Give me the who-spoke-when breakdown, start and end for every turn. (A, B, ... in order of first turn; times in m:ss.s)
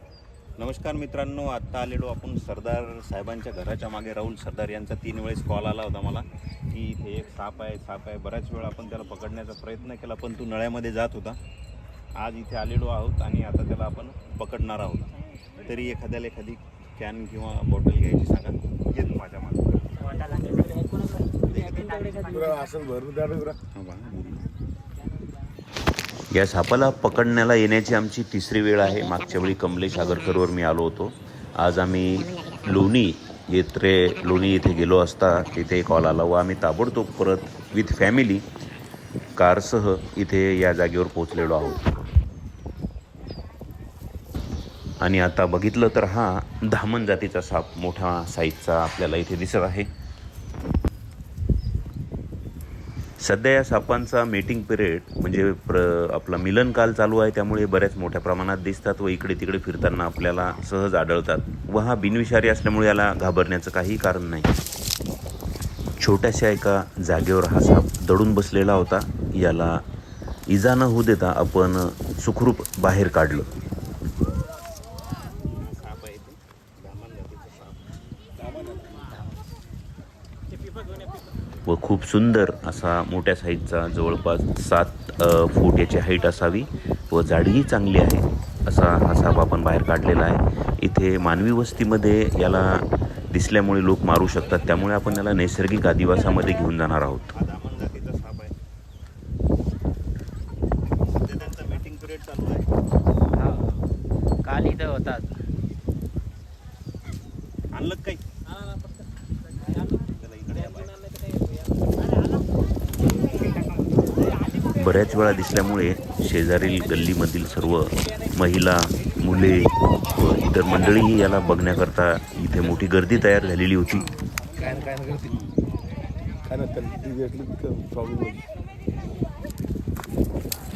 0:00.6-0:11.4 A
0:12.2-0:20.0 A
0:20.1-0:22.6 B
0:21.5-0:22.4 A
0:22.3-0:23.6 C
0:23.7-0:24.5 A
0:26.3-0:38.4 D
0:39.4-0:41.8 D
0:45.0-0:49.9 D
0:53.2-1:04.5 D
1:06.0-1:09.8 D
1:10.5-1:13.5 D
1:15.6-1:17.9 A
1:21.7-1:37.3 D
1:37.3-1:38.6 A
1:41.0-1:42.7 A
1:43.4-1:43.8 B
1:44.4-1:45.4 B
1:47.7-1:48.2 A
1:50.1-1:51.0 A
1:54.8-2:04.1 D
2:04.6-2:05.3 C
2:06.5-2:08.4 C